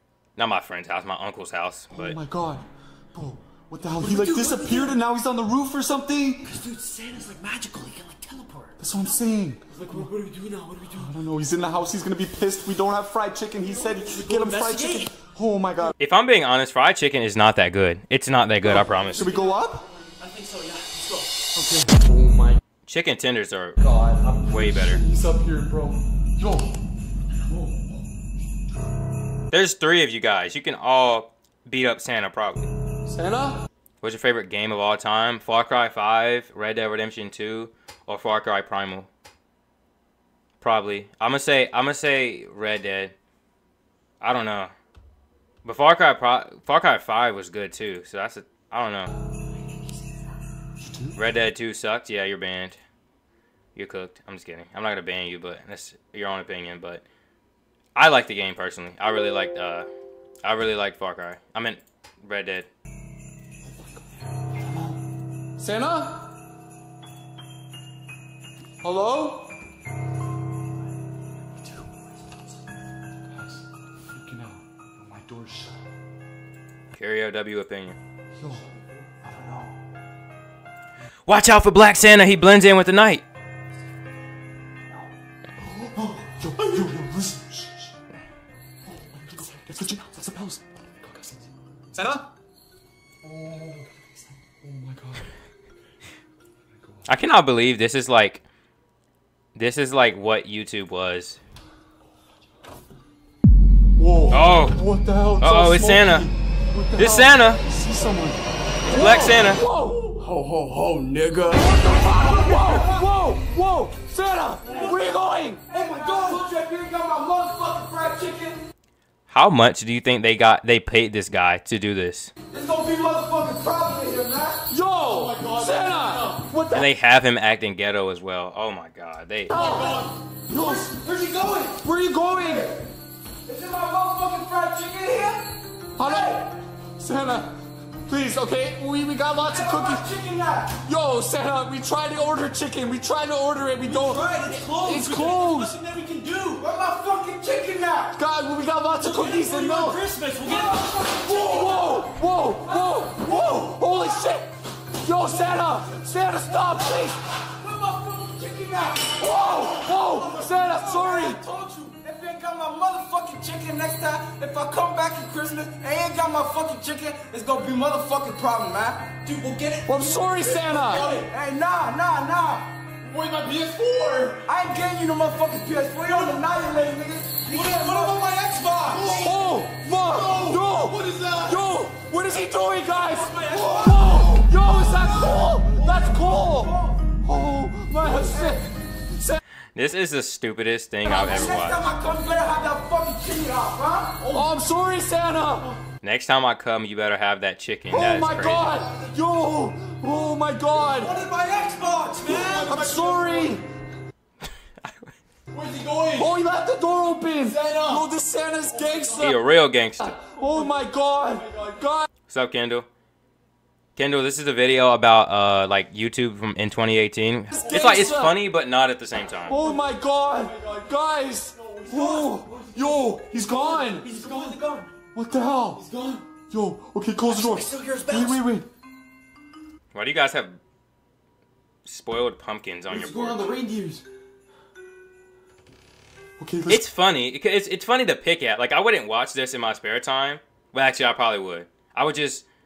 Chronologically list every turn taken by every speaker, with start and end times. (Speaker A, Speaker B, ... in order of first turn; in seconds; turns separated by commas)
Speaker A: 0.3-2.2, Speaker B: 1.9-6.5, Speaker C: 4.0-5.0, Speaker C: 6.4-8.8, Speaker B: 8.8-10.1, Speaker C: 9.7-11.1, Speaker B: 10.9-15.9, Speaker C: 13.9-15.1, Speaker A: 16.0-19.3, Speaker B: 18.6-19.8, Speaker C: 19.0-21.4, Speaker B: 21.5-22.6, Speaker A: 22.9-23.8, Speaker B: 23.8-26.7, Speaker A: 24.5-25.0, Speaker B: 27.5-27.9, Speaker A: 29.5-32.7, Speaker B: 33.0-33.6, Speaker A: 34.0-39.1, Speaker A: 40.6-43.1, Speaker A: 44.2-44.7, Speaker A: 45.6-49.1, Speaker B: 50.8-51.2, Speaker A: 51.1-52.8, Speaker A: 53.7-57.0, Speaker A: 57.9-59.9, Speaker A: 60.4-62.7, Speaker B: 64.6-65.0, Speaker B: 65.6-66.2, Speaker B: 68.8-69.5, Speaker B: 73.3-75.8, Speaker A: 76.9-78.0, Speaker B: 78.4-78.7, Speaker B: 79.2-79.7, Speaker A: 81.3-83.2, Speaker B: 85.6-87.9, Speaker B: 88.8-91.4, Speaker B: 91.9-92.3, Speaker B: 93.2-95.3, Speaker A: 97.1-98.4, Speaker A: 99.5-101.4, Speaker B: 104.0-110.2, Speaker A: 104.3-104.8, Speaker A: 105.4-106.3, Speaker A: 107.0-107.6, Speaker A: 108.8-109.6, Speaker C: 110.3-111.5, Speaker B: 111.5-115.8, Speaker D: 111.9-113.0, Speaker D: 114.7-115.0, Speaker D: 115.7-118.6, Speaker A: 119.3-122.3, Speaker D: 122.5-126.3, Speaker B: 124.7-126.9, Speaker A: 126.7-129.7, Speaker B: 129.5-131.0, Speaker D: 129.5-131.8, Speaker B: 131.8-132.7, Speaker D: 132.4-132.8, Speaker D: 133.4-135.4, Speaker B: 136.0-140.0, Speaker D: 136.0-136.4, Speaker D: 139.4-140.7, Speaker B: 140.7-145.7, Speaker C: 143.8-146.6, Speaker D: 146.6-148.1, Speaker B: 148.1-150.0, Speaker C: 149.0-152.1, Speaker D: 150.5-151.5, Speaker B: 151.1-157.2, Speaker D: 152.7-154.2, Speaker D: 155.3-155.6, Speaker D: 156.6-169.1, Speaker B: 159.2-161.4, Speaker C: 169.2-171.2, Speaker B: 169.8-171.1, Speaker D: 170.7-172.7, Speaker E: 173.0-174.4, Speaker D: 174.4-179.3, Speaker C: 177.5-179.2, Speaker E: 178.9-179.3, Speaker B: 179.1-189.4, Speaker E: 180.2-181.5, Speaker D: 183.3-187.0, Speaker D: 188.0-188.5, Speaker A: 189.7-191.9, Speaker D: 191.0-194.4, Speaker B: 194.3-195.8, Speaker A: 196.0-198.7, Speaker B: 197.9-201.2, Speaker C: 201.0-202.7, Speaker E: 202.2-203.5, Speaker B: 202.3-203.6, Speaker A: 204.8-205.2, Speaker E: 205.5-206.3, Speaker B: 206.1-209.4, Speaker E: 207.4-208.0, Speaker E: 208.8-209.2, Speaker A: 209.2-210.2, Speaker B: 210.0-212.1, Speaker A: 212.3-212.9, Speaker A: 213.9-219.6, Speaker B: 217.5-218.4, Speaker B: 219.4-224.1, Speaker E: 220.4-220.9, Speaker E: 221.5-222.9, Speaker C: 223.6-224.9, Speaker B: 225.1-225.9, Speaker E: 225.8-226.2, Speaker B: 226.5-228.7, Speaker C: 227.3-228.4, Speaker A: 229.9-230.6, Speaker A: 231.8-233.4, Speaker B: 232.9-234.0, Speaker B: 236.4-236.8, Speaker A: 236.7-242.4